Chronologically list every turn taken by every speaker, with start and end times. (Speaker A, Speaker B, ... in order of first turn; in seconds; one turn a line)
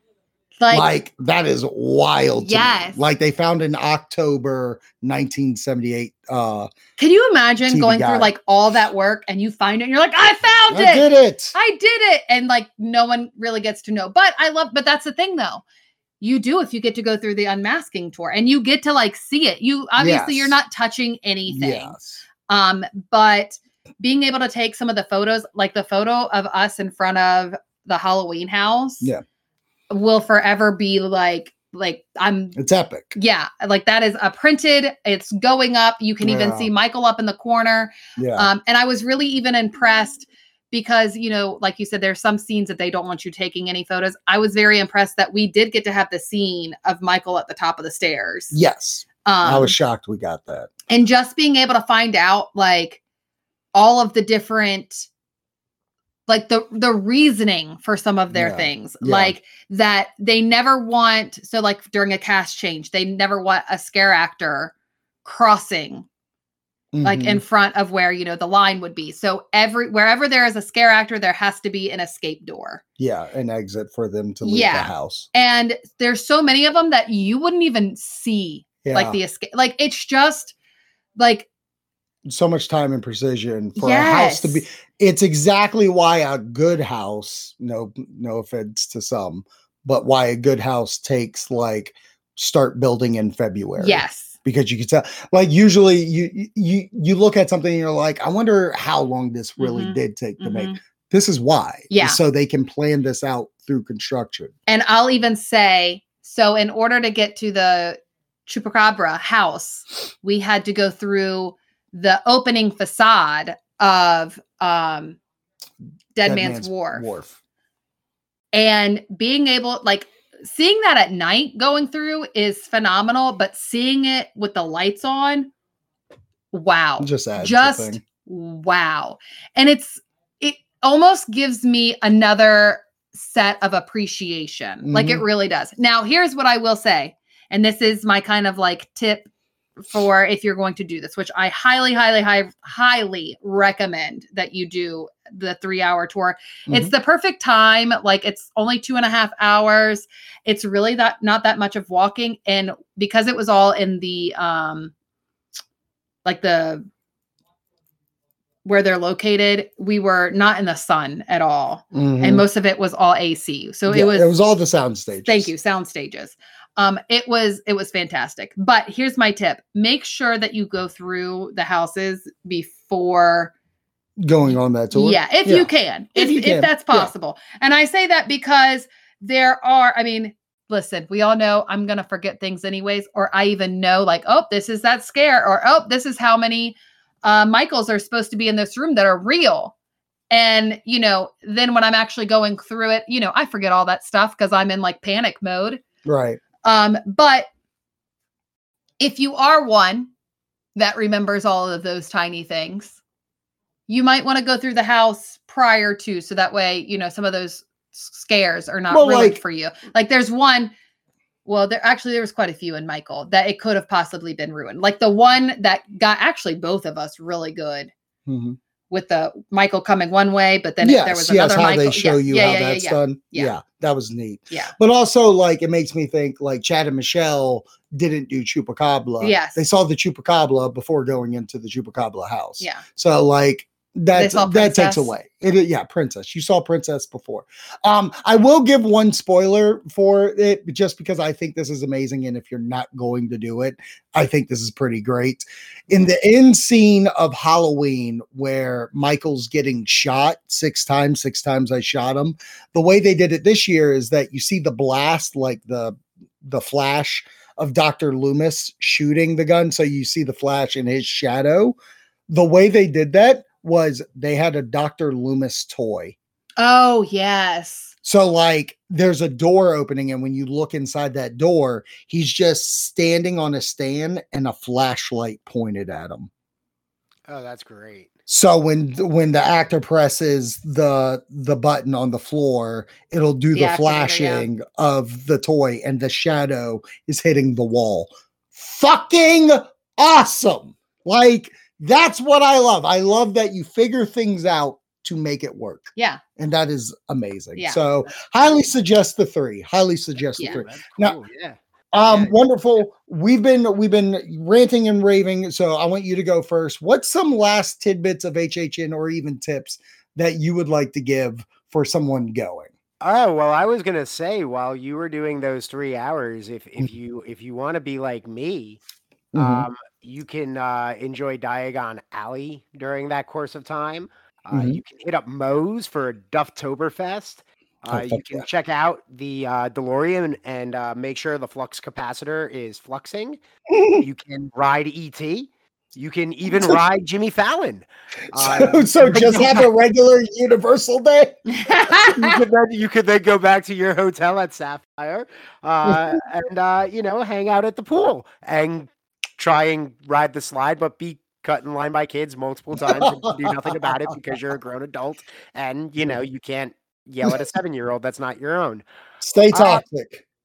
Speaker A: 0.6-0.9
Speaker B: 0.7-6.7
Speaker A: 2.4-3.0
Speaker A: 7.0-15.6
Speaker B: 7.7-8.3
Speaker B: 10.7-11.6
Speaker A: 16.2-21.9
Speaker B: 20.0-20.6
Speaker B: 21.5-22.2
Speaker A: 22.5-29.1
Speaker A: 29.9-32.6
Speaker B: 32.6-33.1
Speaker A: 33.1-48.6
Speaker B: 36.2-36.7
Speaker B: 38.2-38.5
Speaker B: 48.5-50.7
Speaker A: 49.2-49.7
Speaker A: 50.9-53.0
Speaker A: 53.8-55.1
Speaker A: 56.3-64.7
Speaker B: 58.3-59.4
Speaker A: 65.2-66.1
Speaker B: 66.9-67.4
Speaker A: 67.0-72.8
Speaker B: 73.0-75.3
Speaker A: 74.4-80.5
Speaker B: 78.8-79.2
Speaker A: 81.2-81.5
Speaker B: 82.3-104.5
Speaker A: 83.8-84.6
Speaker A: 93.8-94.3
Speaker A: 99.6-100.8
Speaker A: 101.9-102.2
Speaker A: 104.7-115.2
Speaker A: 116.2-117.1
Speaker B: 116.2-117.4
Speaker A: 118.5-125.5
Speaker A: 126.5-139.3
Speaker B: 127.0-128.0
Speaker B: 134.8-135.2
Speaker A: 139.9-154.9
Speaker A: 156.2-156.9
Speaker A: 158.7-164.3
Speaker B: 161.9-162.4
Speaker B: 163.9-165.5
Speaker A: 165.3-173.5
Speaker B: 174.2-177.1
Speaker A: 174.9-189.7
Speaker A: 190.3-195.8
Speaker B: 196.1-196.4
Speaker A: 196.6-197.5
Speaker A: 199.0-200.1
Speaker A: 200.8-203.0
Speaker A: 203.9-210.7
Speaker B: 208.9-209.4
Speaker A: 211.5-217.9
Speaker B: 218.3-218.6
Speaker A: 218.9-223.6
Speaker B: 220.8-261.8
Speaker A: 229.2-229.6
Speaker A: 234.1-235.1
Speaker B: 262.3-266.1
Speaker A: 266.6-267.9
Speaker B: 268.0-276.3
Speaker C: 277.3-278.1
Speaker B: 278.3-301.2
Speaker A: 283.5-284.5
Speaker A: 296.0-296.2
Speaker C: 300.3-302.4
Speaker B: 301.9-312.7
Speaker C: 313.0-318.8
Speaker B: 319.3-319.7
Speaker C: 319.4-333.4
Speaker B: 324.5-324.8
Speaker B: 327.9-328.4
Speaker B: 333.7-334.1
Speaker C: 334.0-339.7
Speaker B: 336.5-336.8
Speaker B: 338.3-341.4
Speaker A: 341.5-342.3
Speaker C: 342.1-358.8
Speaker B: 352.8-354.1
Speaker B: 359.2-360.2
Speaker C: 359.5-359.8